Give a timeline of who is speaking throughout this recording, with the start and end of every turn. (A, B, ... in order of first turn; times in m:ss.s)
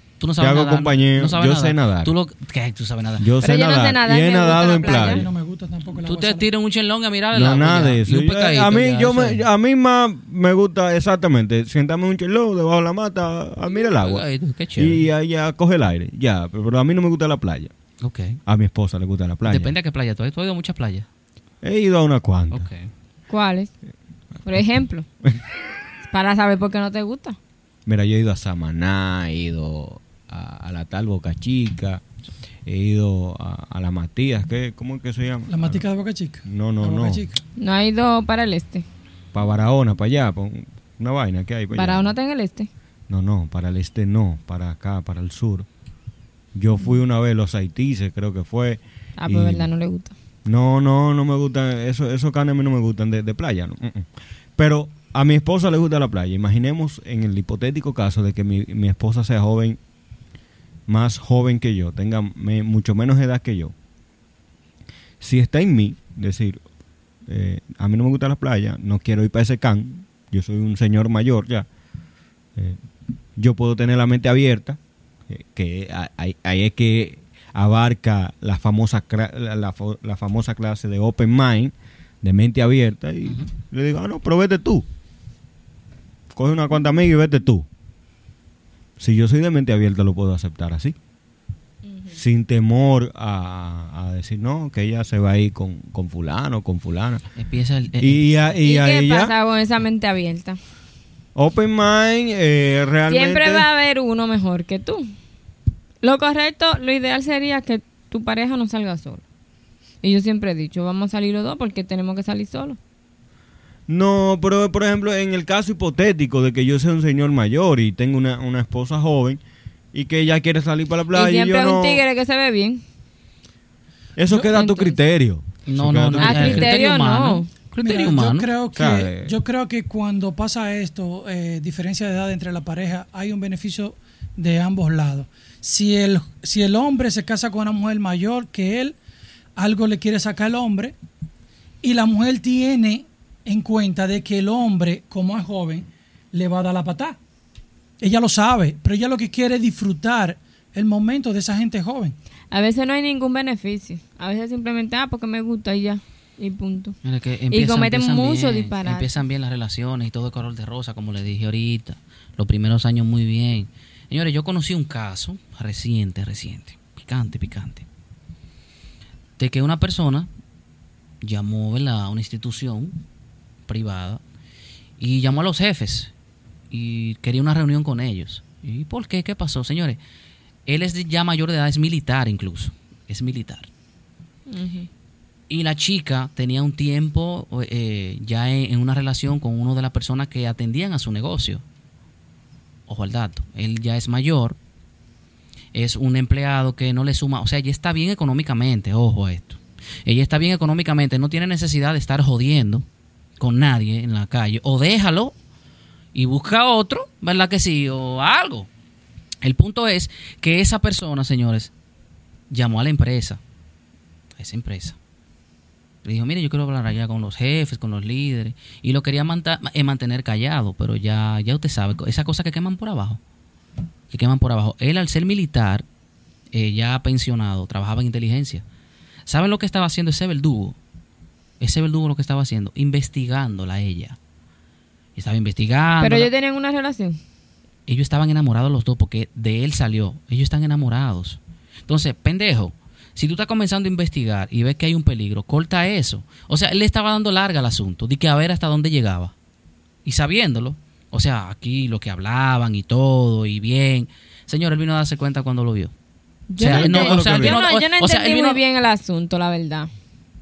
0:00.2-0:03.2 A
0:00.4-0:02.1 B
0:03.2-0:05.3 B
0:03.4-0:05.2 C
0:04.7-0:06.5 D
0:06.0-0:09.4 A
0:07.3-0:17.7 B
0:13.7-0:15.0 A
0:18.0-0:18.4 A
0:18.4-0:19.7 B
0:19.5-0:21.0 A
0:21.6-0:22.7 B
0:22.5-0:22.9 A
0:23.3-0:23.7 C
0:24.4-0:25.0 C
0:26.1-0:27.4 C
0:27.8-0:32.0 B
0:32.6-0:35.8 B
0:35.5-0:37.4 D
0:36.4-0:37.2 B
0:37.6-0:38.8 C
0:39.3-0:42.1 B
0:41.7-0:42.7 C
0:43.1-0:45.7 B
0:46.5-0:49.7 B
0:49.2-0:50.1 C
0:50.4-0:59.8 B
1:00.9-1:03.7 B
1:05.2-1:06.6 B
1:07.3-1:11.7 B
1:13.4-1:14.8 B
1:15.3-1:24.8 B
1:26.3-1:27.6 B
1:29.0-1:31.0 B
1:32.1-1:37.2 B
1:37.4-1:38.3 A
1:38.0-1:39.3 B
1:38.6-1:40.6 C
1:41.3-1:43.6 B
1:43.1-1:45.1 C
1:46.0-1:49.2 C
1:50.0-1:52.8 C
1:53.9-1:59.4 B
1:59.9-2:02.0 B
2:01.1-2:02.8 C
2:04.2-2:06.8 B
2:04.5-2:05.0 C
2:05.6-2:08.5 A
2:06.2-2:07.5 C
2:07.8-2:19.0 D
2:08.7-2:09.3 B
2:19.6-2:20.9 D
2:21.8-2:27.2 D
2:28.0-2:32.2 D
2:32.5-2:37.0 C
2:37.0-2:47.8 A
2:37.5-2:39.1 C
2:49.4-2:50.3 A
2:51.2-2:53.0 A
2:53.7-2:54.2 A
2:55.0-2:56.1 A
2:56.7-3:00.0 A
3:00.7-3:03.7 A
3:04.5-3:04.9 C
3:05.5-3:11.6 A
3:12.9-3:14.6 A
3:15.7-3:22.8 A
3:23.4-3:25.3 A
3:26.1-3:28.7 A
3:29.4-3:31.7 A
3:32.5-3:33.4 A
3:34.4-3:35.0 A
3:36.0-3:43.2 A
3:44.1-3:45.8 A
3:46.5-3:48.6 A
3:49.3-3:50.8 A
3:51.6-3:54.2 A
3:55.2-3:56.3 A
3:56.0-3:57.2 C
3:57.9-4:09.3 A
4:10.0-4:15.9 A
4:16.5-4:19.9 C
4:16.6-4:18.6 A
4:16.6-4:17.6 B